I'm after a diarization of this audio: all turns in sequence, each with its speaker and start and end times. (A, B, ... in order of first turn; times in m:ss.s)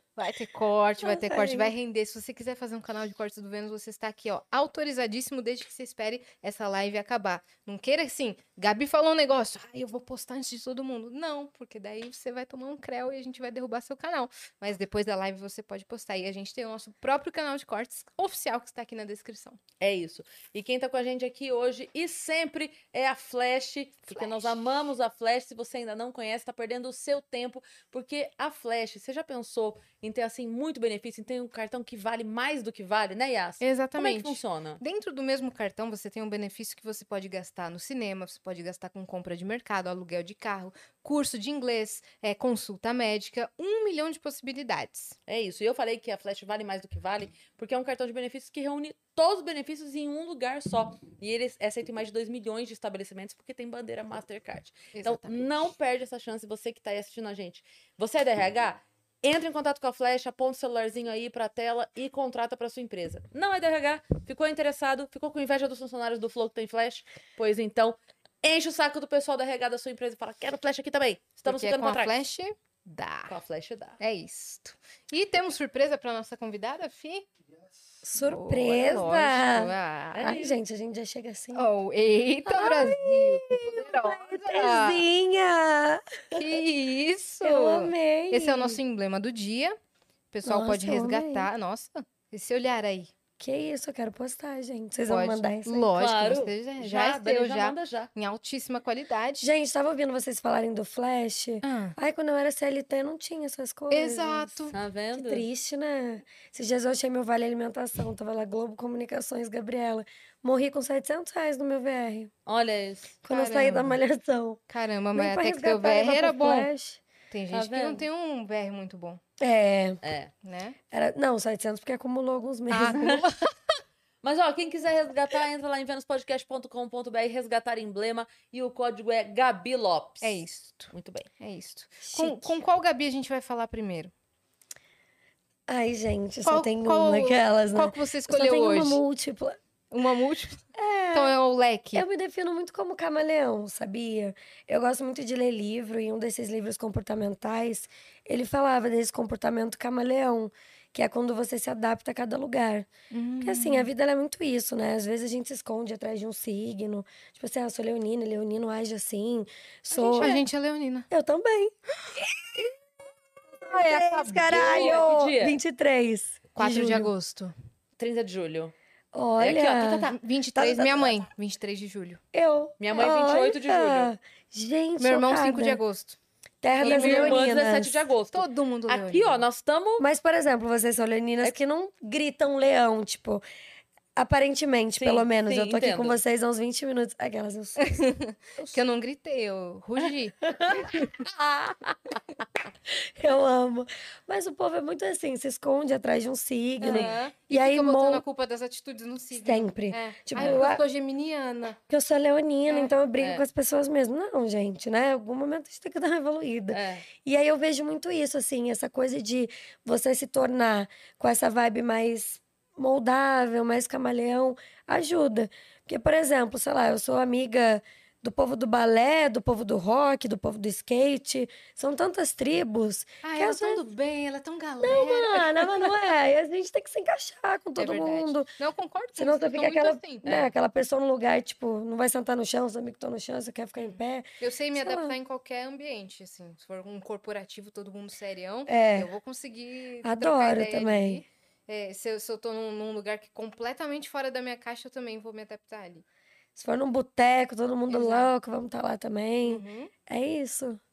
0:00.2-0:19.6 A
0:01.0-0:01.7 B
0:19.8-0:34.8 C
0:24.1-0:24.5 A
0:33.6-0:45.2 A
0:45.3-1:12.1 C
0:54.9-0:55.5 A
1:11.4-1:13.4 A
1:13.3-1:14.0 C
1:14.0-1:17.3 A
1:18.0-1:21.6 B
1:18.2-1:20.4 A
1:20.1-1:20.6 C
1:21.5-1:25.0 A
1:22.4-1:26.6 B
1:26.3-1:29.8 A
1:27.4-1:28.8 B
1:30.3-1:33.1 A
1:30.4-1:31.5 B
1:33.4-1:35.9 B
1:35.1-1:39.5 A
1:36.0-1:38.1 C
1:39.4-1:44.5 B
1:41.6-1:42.0 A
1:43.9-1:44.8 A
1:44.7-1:45.4 C
1:45.1-1:52.3 B
1:52.5-1:53.2 C
1:53.2-1:54.6 B
1:53.3-1:53.9 A
1:54.7-1:56.7 A
1:55.2-1:57.0 B
1:57.3-1:59.2 A
1:57.5-1:58.0 C
1:59.4-2:00.0 B
2:00.0-2:00.3 C
2:00.4-2:00.8 A
2:00.9-2:03.2 B
2:02.7-2:03.4 A
2:02.9-2:03.2 C
2:04.2-2:11.3 C
2:10.2-2:14.1 A
2:12.0-2:12.6 B
2:15.7-2:19.6 B
2:16.4-2:19.0 A
2:19.9-2:22.0 A
2:20.8-2:21.4 B
2:21.9-2:32.9 B
2:33.1-2:33.9 A
2:33.4-2:40.4 B
2:39.9-2:41.1 A
2:41.1-2:41.7 B
2:43.6-2:47.1 B
2:43.8-2:45.1 A
2:44.2-2:45.6 C
2:46.6-2:47.5 A
2:48.0-2:48.7 C
2:49.1-2:51.1 B
2:49.4-2:50.2 C
2:50.1-2:52.2 A
2:52.3-2:55.8 B
2:52.8-2:54.1 C
2:55.0-2:56.2 A
2:56.6-2:58.1 B
2:56.8-2:57.5 A
2:56.8-3:00.0 C
2:58.3-2:59.4 A
3:00.0-3:03.4 B
3:04.2-3:07.9 B
3:05.0-3:06.2 C
3:07.8-3:11.0 A
3:10.4-3:10.9 B
3:11.2-3:11.9 C
3:12.9-3:18.2 B
3:16.8-3:21.8 A
3:19.4-3:20.8 B
3:20.4-3:20.6 C
3:21.9-3:43.8 B
3:23.2-3:23.4 C
3:26.7-3:27.0 C
3:43.2-3:46.0 A
3:44.8-3:48.5 B
3:47.8-3:50.3 A
3:49.2-3:55.2 B
3:53.8-4:06.0 A
3:58.7-3:59.1 B
4:00.0-4:01.2 B
4:06.6-4:10.8 B
4:07.9-4:08.3 A
4:09.4-4:09.9 A